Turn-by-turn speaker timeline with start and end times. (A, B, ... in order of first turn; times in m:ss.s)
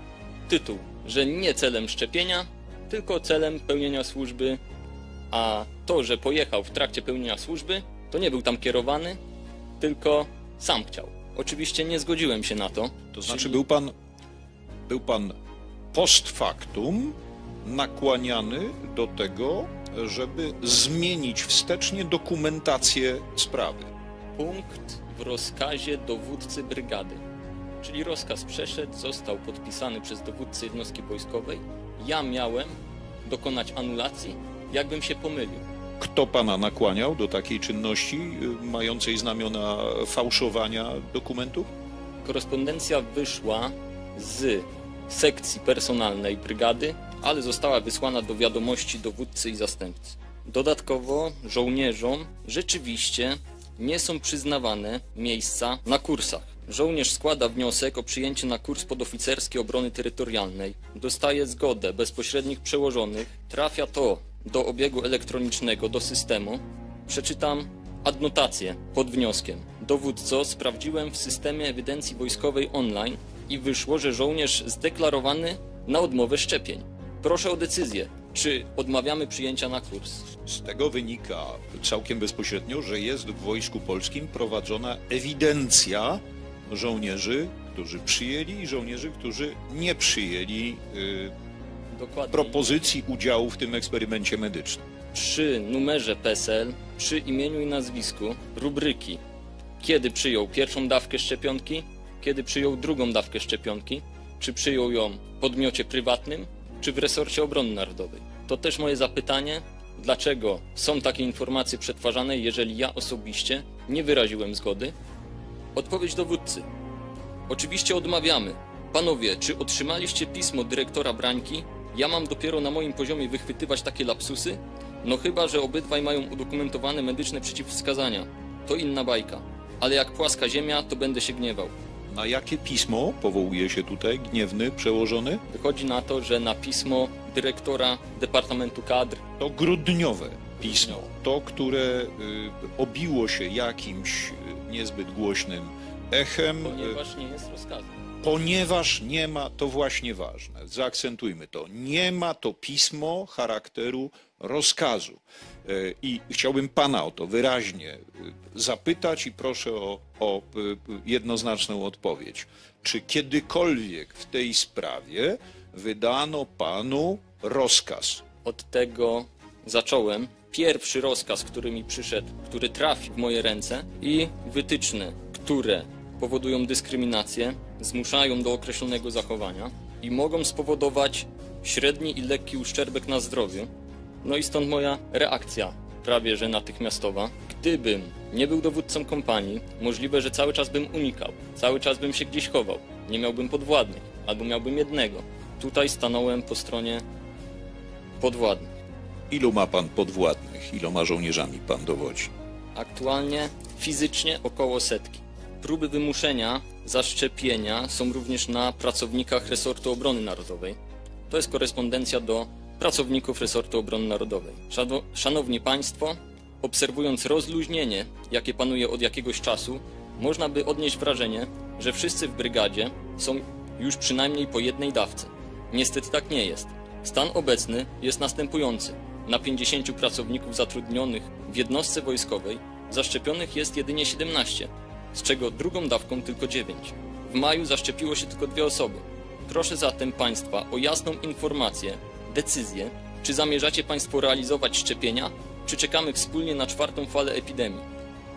0:00.5-0:04.6 A
0:05.3-0:09.2 A
0:09.8-0:13.6 A
0:13.1-0:13.9 B
0:14.9-0:15.3 B
0:15.9-0:23.9 B
0:24.4-0:27.2 A
0:27.8-0:32.7 A
0:33.2-0:35.6 A
0:36.0-0:41.7 B
0:42.2-1:20.3 A
1:20.4-1:31.3 B
1:31.9-1:32.9 A
1:32.3-1:34.8 B
1:35.1-1:39.2 A
1:39.8-1:54.9 A
1:55.7-1:56.7 A
1:57.5-2:11.7 A
2:12.1-2:15.4 B
2:15.5-2:19.2 A
2:19.4-2:27.0 B
2:26.6-2:28.0 A
2:28.2-2:48.2 B
2:48.4-3:03.7 A
3:04.2-3:17.0 A
3:18.2-3:18.7 A
3:19.3-3:22.3 B
3:22.7-3:30.8 A
3:31.3-4:07.8 A